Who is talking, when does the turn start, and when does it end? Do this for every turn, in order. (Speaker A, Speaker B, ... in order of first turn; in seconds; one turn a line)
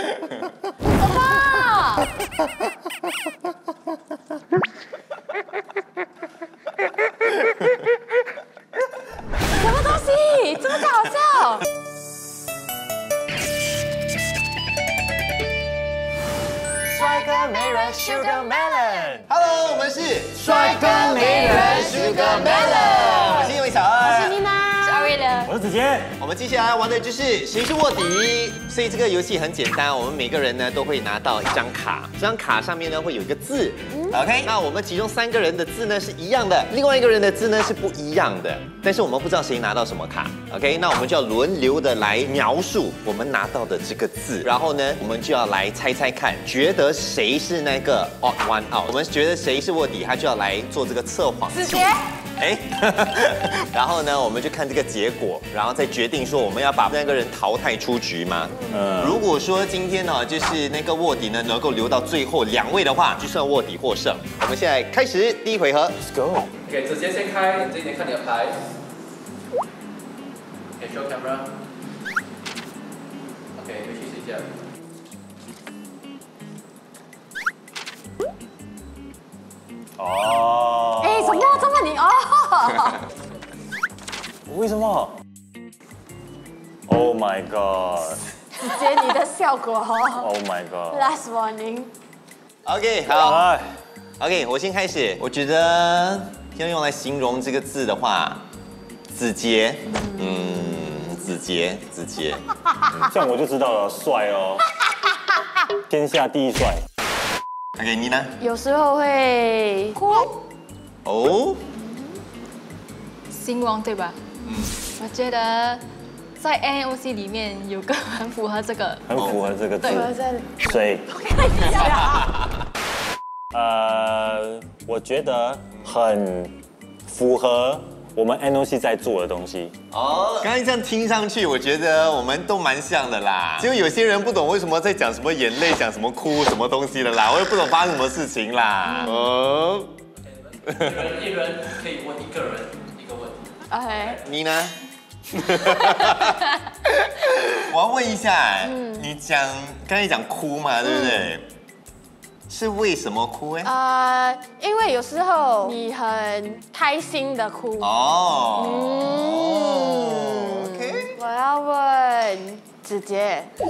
Speaker A: 0.9-2.1
Speaker A: 9.5-11.7
Speaker B: 16.9-19.3
Speaker C: 17.8-18.3
Speaker D: 19.3-24.4
Speaker B: 20.5-23.1
Speaker A: 20.7-25.2
Speaker C: 21.2-23.4
Speaker C: 24.8-25.5
Speaker B: 25.4-26.1
Speaker D: 26.2-66.0
Speaker A: 33.9-34.2
Speaker A: 51.5-52.0
Speaker B: 58.7-59.2
Speaker B: 66.0-66.5
Speaker E: 66.7-68.6
Speaker E: 70.8-71.5
Speaker E: 73.5-74.5
Speaker B: 80.0-81.7
Speaker A: 81.0-83.0
Speaker B: 84.5-85.2
Speaker B: 86.9-88.2
Speaker A: 88.6-90.3
Speaker B: 90.2-91.1
Speaker A: 90.9-91.9
Speaker D: 92.6-93.4
Speaker B: 93.1-93.8
Speaker D: 94.2-98.4
Speaker D: 99.1-102.4
Speaker B: 103.0-104.6
Speaker B: 105.9-106.8
Speaker D: 107.8-108.3
Speaker A: 108.4-110.3
Speaker D: 111.0-111.6
Speaker A: 111.8-112.1
Speaker C: 113.3-114.2
Speaker D: 114.5-114.7
Speaker C: 115.0-115.8
Speaker C: 116.4-119.0
Speaker B: 119.1-120.1
Speaker C: 119.8-120.1
Speaker A: 119.8-122.3
Speaker B: 120.6-121.0
Speaker B: 123.5-126.5
Speaker B: 127.1-129.7
Speaker D: 129.9-139.9
Speaker A: 138.8-139.1
Speaker E: 140.6-143.4
Speaker A: 143.7-144.2
Speaker D: 144.2-144.8
Speaker D: 145.3-151.5
Speaker A: 148.6-149.0
Speaker A: 150.9-151.3
Speaker D: 152.5-153.7
Speaker A: 153.6-157.9
Speaker D: 157.8-161.2
Speaker A: 158.5-163.5